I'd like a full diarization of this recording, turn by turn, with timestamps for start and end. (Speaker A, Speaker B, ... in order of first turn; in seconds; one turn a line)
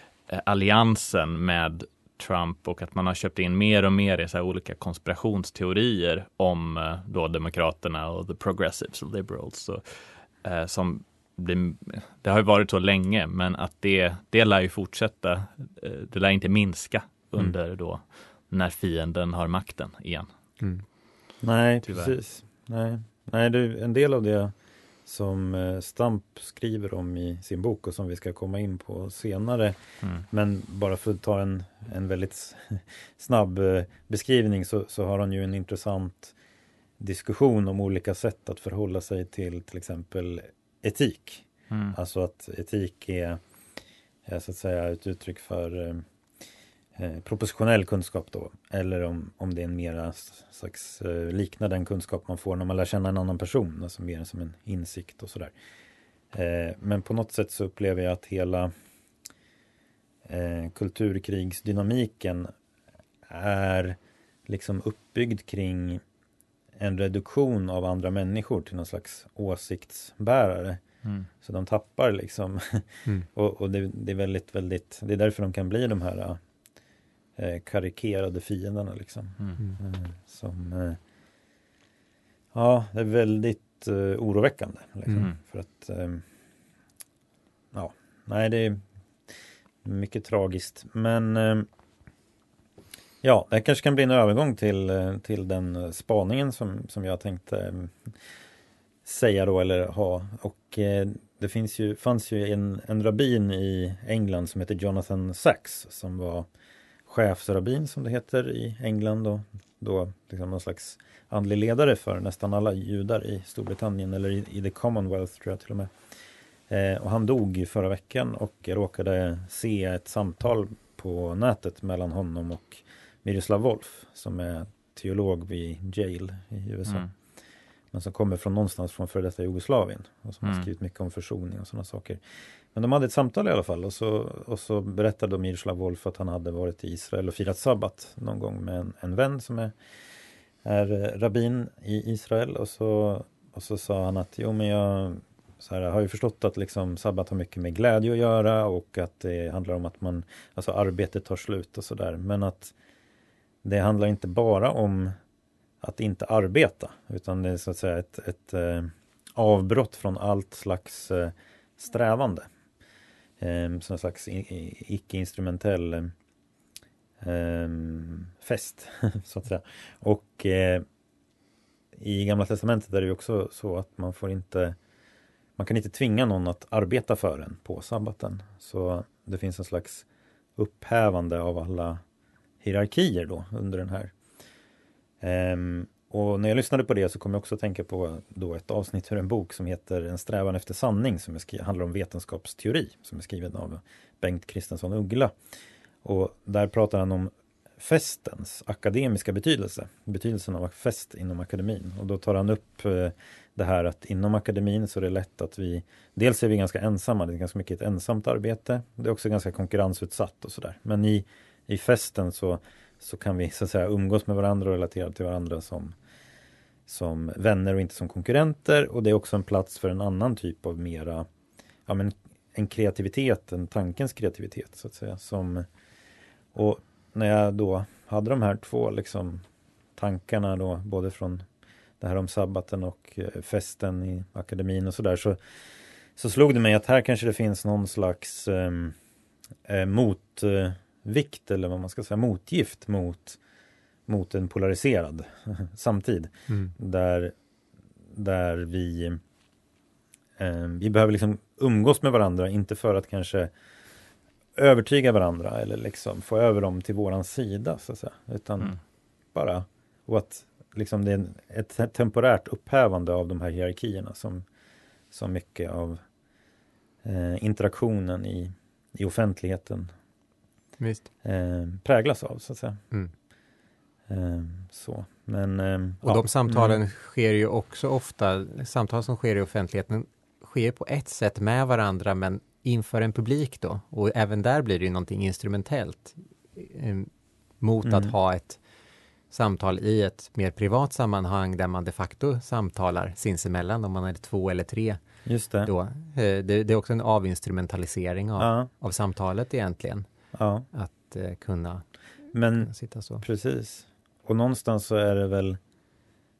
Speaker A: 0.3-20.3
Speaker B: 21.4-24.5
Speaker A: 21.8-22.1
Speaker B: 25.1-29.8
Speaker B: 30.3-36.3
Speaker B: 37.0-43.4
Speaker A: 41.7-42.0
Speaker B: 44.2-46.0
Speaker B: 47.0-55.5
Speaker B: 56.3-58.7
Speaker B: 60.2-62.5
Speaker B: 63.3-66.0
Speaker B: 66.8-70.8
Speaker B: 71.4-76.4
Speaker B: 77.4-81.0
Speaker B: 82.5-86.2
Speaker B: 87.7-88.8
Speaker B: 89.8-91.7
Speaker B: 93.2-98.1
Speaker B: 99.0-106.5
Speaker B: 107.1-115.9
Speaker B: 116.7-127.0
Speaker B: 127.9-132.2
Speaker B: 132.7-139.7
Speaker B: 140.6-152.7
Speaker B: 153.6-155.1
Speaker B: 155.8-162.5
Speaker B: 163.4-166.1
Speaker B: 167.2-170.8
Speaker B: 171.9-174.8
Speaker B: 175.6-180.1
Speaker B: 180.6-182.0
Speaker B: 182.6-184.1
Speaker B: 185.2-195.3
Speaker B: 196.0-215.9
Speaker B: 216.9-221.3
Speaker B: 221.8-225.7
Speaker B: 226.5-229.4
Speaker B: 230.0-231.4
Speaker B: 232.0-235.4
Speaker B: 236.2-238.9
Speaker B: 239.6-243.4
Speaker B: 244.1-247.3
Speaker C: 246.5-246.7
Speaker B: 248.1-249.2
Speaker B: 250.4-253.5
Speaker B: 254.6-258.8
Speaker B: 259.3-264.4
Speaker B: 265.1-266.0
Speaker B: 267.0-269.9
Speaker C: 270.8-271.1
Speaker B: 271.2-272.8
Speaker B: 274.1-276.8
Speaker C: 276.0-287.1
Speaker C: 287.6-288.6
Speaker B: 287.8-288.1
Speaker C: 289.3-295.0
Speaker B: 295.2-295.7
Speaker C: 295.6-300.1
Speaker B: 298.4-298.7
Speaker B: 300.3-300.6
Speaker C: 300.7-301.8
Speaker B: 302.3-305.6
Speaker C: 302.6-303.2